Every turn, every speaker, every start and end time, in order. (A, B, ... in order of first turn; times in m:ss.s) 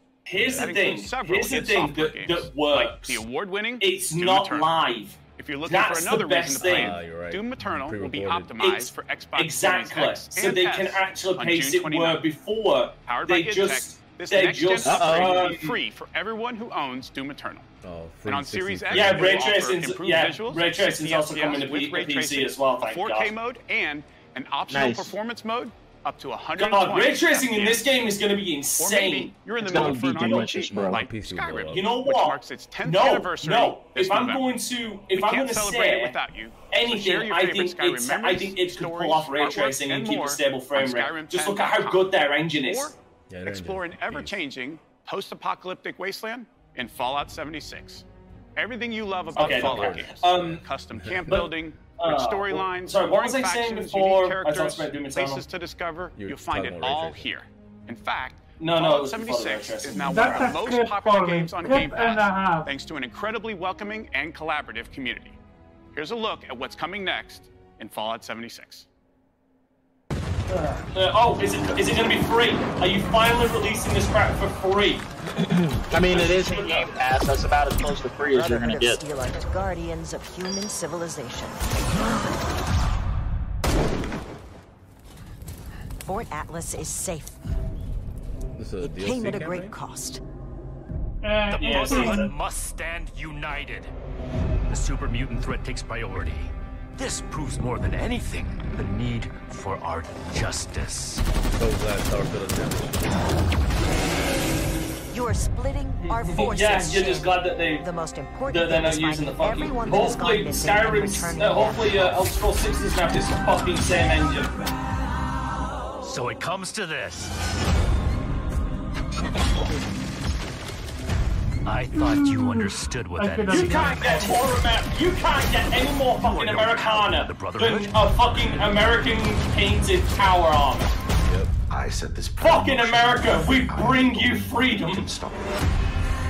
0:00.3-0:03.2 A
0:00.4-0:04.7 B
0:03.8-0:07.0 A
0:05.3-0:12.2 B
0:06.7-0:08.7 C
0:08.6-0:15.8 A
0:13.0-0:17.7 B
0:14.8-0:15.4 D
0:17.8-0:19.4 C
0:18.3-0:27.9 B
0:18.9-0:23.3 A
0:24.7-0:25.1 D
0:26.6-0:30.5 A
0:28.8-0:34.5 B
0:29.6-0:31.0 D
0:30.6-0:32.0 C
0:31.7-0:36.2 A
0:35.1-0:48.0 B
0:36.7-0:42.9 A
0:43.3-0:44.4 C
0:48.6-1:05.4 B
0:49.3-0:51.5 C
0:49.3-0:50.6 A
0:51.3-0:55.4 A
0:56.1-0:57.3 C
0:58.6-1:00.6 A
0:59.9-1:02.7 E
1:05.9-1:08.8 B
1:10.5-1:15.0 A
1:15.4-1:19.0 D
1:16.0-1:17.0 A
1:18.3-1:22.3 F
1:26.0-1:27.4 F
1:28.6-1:29.8 C
1:28.8-1:30.2 F
1:31.2-1:32.3 E
1:31.6-1:32.3 A
1:31.7-1:33.9 G
1:34.7-1:41.2 G
1:41.6-1:43.1 C
1:45.1-1:52.3 F
1:46.1-1:47.9 A
1:48.5-1:54.5 A
1:56.0-1:57.3 G
2:01.6-2:04.4 G
2:01.9-2:04.4 E
2:03.5-2:10.9 A
2:06.2-2:07.9 G
2:11.2-2:11.5 C
2:11.7-2:15.6 H
2:12.4-2:15.1 A